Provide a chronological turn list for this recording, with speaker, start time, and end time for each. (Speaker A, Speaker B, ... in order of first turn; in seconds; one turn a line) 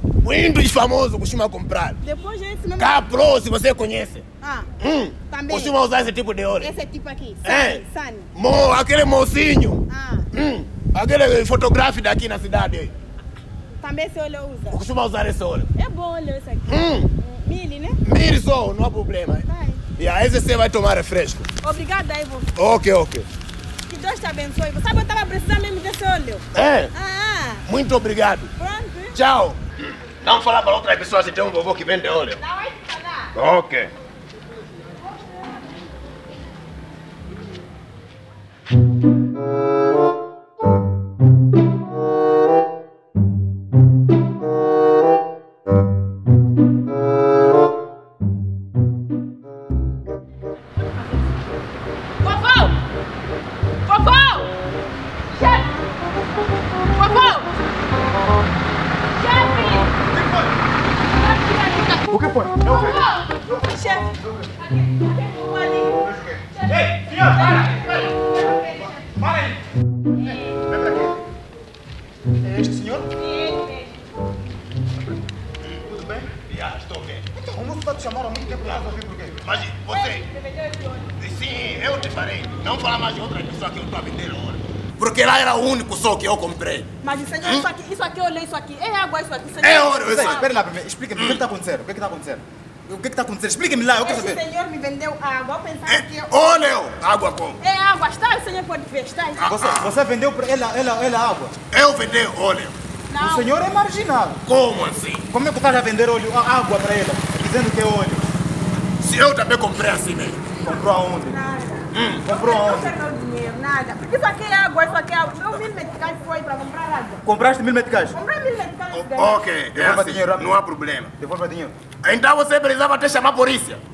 Speaker A: 0.2-2.0
Speaker B: 2.0-3.0
Speaker A: 2.8-4.2
Speaker B: 4.4-4.7
Speaker A: 4.8-6.7
Speaker B: 5.3-5.8
Speaker B: 6.6-8.3
Speaker A: 7.4-7.8
Speaker A: 8.3-9.8
Speaker B: 9.9-10.3
Speaker A: 10.3-12.9
Speaker B: 13.8-14.8
Speaker A: 14.7-15.7
Speaker B: 15.8-18.0
Speaker A: 16.7-17.1
Speaker A: 18.0-19.4
Speaker B: 19.4-19.8
Speaker A: 20.0-21.5
Speaker B: 21.6-22.5
Speaker A: 22.6-23.3
Speaker B: 23.9-27.6
Speaker A: 26.5-26.9
Speaker A: 27.6-28.5
Speaker B: 28.6-29.2
Speaker A: 29.1-32.4
Speaker B: 32.4-33.3
Speaker A: 33.3-33.9
Speaker B: 52.2-52.7
Speaker B: 53.9-54.5
Speaker B: 55.3-55.7
Speaker B: 56.9-57.5
Speaker B: 59.1-60.0
Speaker C: 60.1-60.5
Speaker B: 61.1-69.1
Speaker C: 62.1-63.6
Speaker C: 64.2-64.5
Speaker C: 66.2-68.1
Speaker C: 69.1-69.6
Speaker B: 70.2-70.6
Speaker C: 70.2-71.2
Speaker C: 72.4-73.1
Speaker B: 73.1-74.1
Speaker C: 75.8-76.3
Speaker A: 76.4-77.2
Speaker C: 77.3-79.4
Speaker A: 79.4-80.3
Speaker B: 79.7-81.1
Speaker A: 81.2-86.9
Speaker B: 87.0-90.5
Speaker A: 87.4-87.7
Speaker A: 89.6-90.4
Speaker C: 90.0-94.4
Speaker A: 91.2-91.4
Speaker B: 94.0-96.7
Speaker A: 95.8-97.6
Speaker B: 97.6-99.5
Speaker A: 99.4-99.9
Speaker C: 99.5-101.5
Speaker A: 101.7-102.7
Speaker B: 103.1-103.6
Speaker C: 103.2-104.4
Speaker A: 104.4-105.3
Speaker C: 105.3-108.2
Speaker A: 109.0-110.4
Speaker C: 110.6-111.4
Speaker B: 110.7-117.2
Speaker A: 111.9-112.3
Speaker C: 112.2-113.0
Speaker C: 117.2-118.2
Speaker B: 118.1-119.4
Speaker A: 118.9-121.1
Speaker C: 119.7-120.5
Speaker C: 121.2-121.8
Speaker A: 122.0-123.8